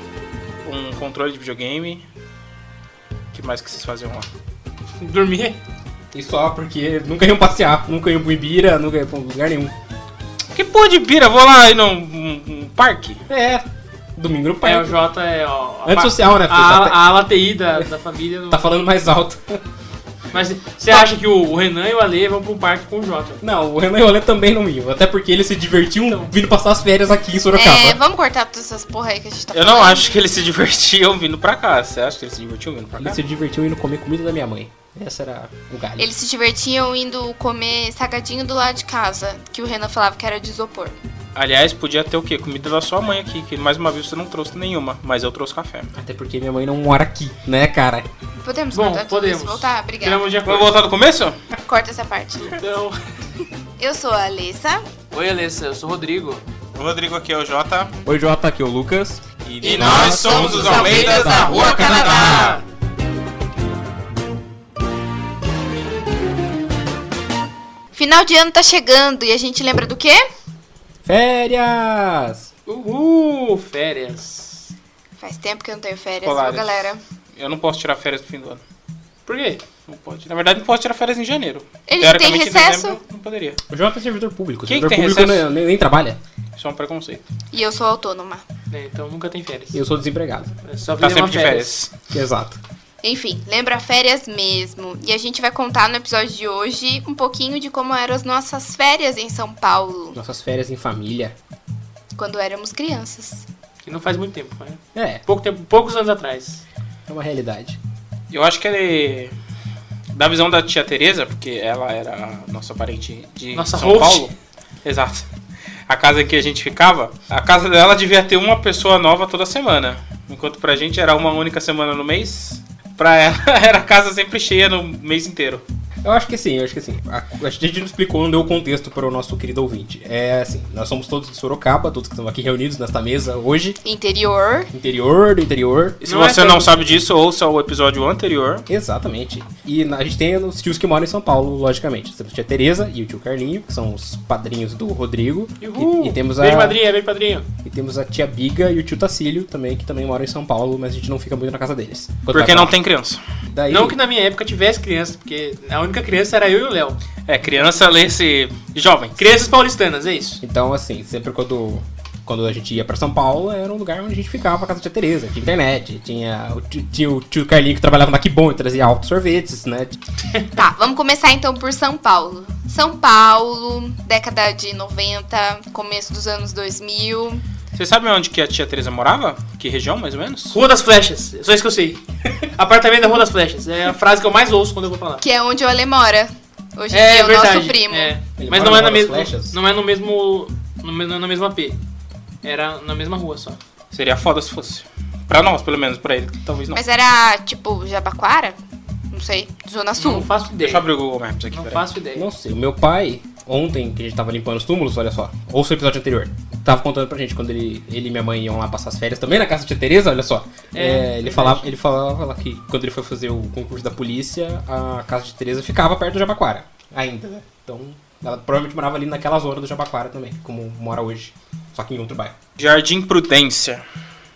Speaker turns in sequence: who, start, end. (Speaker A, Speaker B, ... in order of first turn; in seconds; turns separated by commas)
Speaker A: 0.6-2.0, Speaker A: 3.3-4.3, Speaker B: 5.0-5.6, Speaker C: 6.1-9.7, Speaker A: 10.5-13.2, Speaker C: 13.3-13.6, Speaker C: 14.2-14.9, Speaker B: 14.6-18.7, Speaker C: 15.8-17.0, Speaker C: 18.5-19.6, Speaker B: 20.3-23.4, Speaker C: 23.4-28.0, Speaker D: 27.5-30.2, Speaker A: 29.5-33.2, Speaker C: 33.0-36.1, Speaker D: 36.0-41.0, Speaker A: 41.3-45.9, Speaker C: 45.9-48.1, Speaker D: 48.4-50.3, Speaker B: 48.7-50.7, Speaker A: 50.4-51.4, Speaker D: 51.6-52.6, Speaker B: 52.4-53.0, Speaker D: 53.8-54.8, Speaker B: 55.1-56.4, Speaker A: 56.7-57.9, Speaker C: 58.0-62.2, Speaker A: 59.6-62.6, Speaker D: 59.6-62.6, Speaker B: 61.7-62.6, Speaker D: 67.9-70.2, Speaker C: 71.0-72.5, Speaker B: 72.7-74.7, Speaker D: 75.2-77.0, Speaker A: 76.2-78.6, Speaker B: 79.3-79.6, Speaker A: 79.9-83.6, Speaker D: 81.9-83.0, Speaker C: 83.7-86.2, Speaker A: 84.7-85.4, Speaker A: 86.6-87.3, Speaker D: 87.5-88.4, Speaker B: 88.7-89.8, Speaker C: 89.7-90.5, Speaker B: 90.6-91.8, Speaker A: 91.0-91.9, Speaker C: 92.1-92.6, Speaker D: 93.0-100.2, Speaker C: 100.1-101.3, Speaker D: 102.1-103.5, Speaker B: 103.8-106.6, Speaker C: 104.9-105.2, Speaker C: 107.1-107.8, Speaker A: 108.3-109.3, Speaker A: 110.1-114.3, Speaker B: 113.5-114.3, Speaker A: 114.8-115.2, Speaker A: 115.9-125.6, Speaker C: 126.0-133.8, Speaker D: 133.8-134.7, Speaker C: 134.7-136.0, Speaker A: 136.0-138.7, Speaker B: 136.0-137.0, Speaker C: 138.7-146.8, Speaker B: 145.6-147.5, Speaker C: 147.6-152.7, Speaker A: 152.3-153.2, Speaker C: 153.5-154.0, Speaker B: 153.7-157.0, Speaker A: 157.3-159.2, Speaker B: 159.2-160.4, Speaker C: 160.4-170.0, Speaker D: 170.5-177.4, Speaker A: 177.7-180.6, Speaker B: 180.5-182.0, Speaker B: 182.5-185.2, Speaker D: 185.2-188.2, Speaker B: 186.9-191.8, Speaker C: 188.4-189.6, Speaker B: 192.4-193.6, Speaker A: 193.9-196.8, Speaker D: 196.7-198.6, Speaker D: 199.1-200.3, Speaker B: 199.9-200.8, Speaker A: 200.6-201.8, Speaker B: 201.5-202.3, Speaker C: 202.1-222.3, Speaker B: 210.7-211.7, Speaker A: 222.6-223.8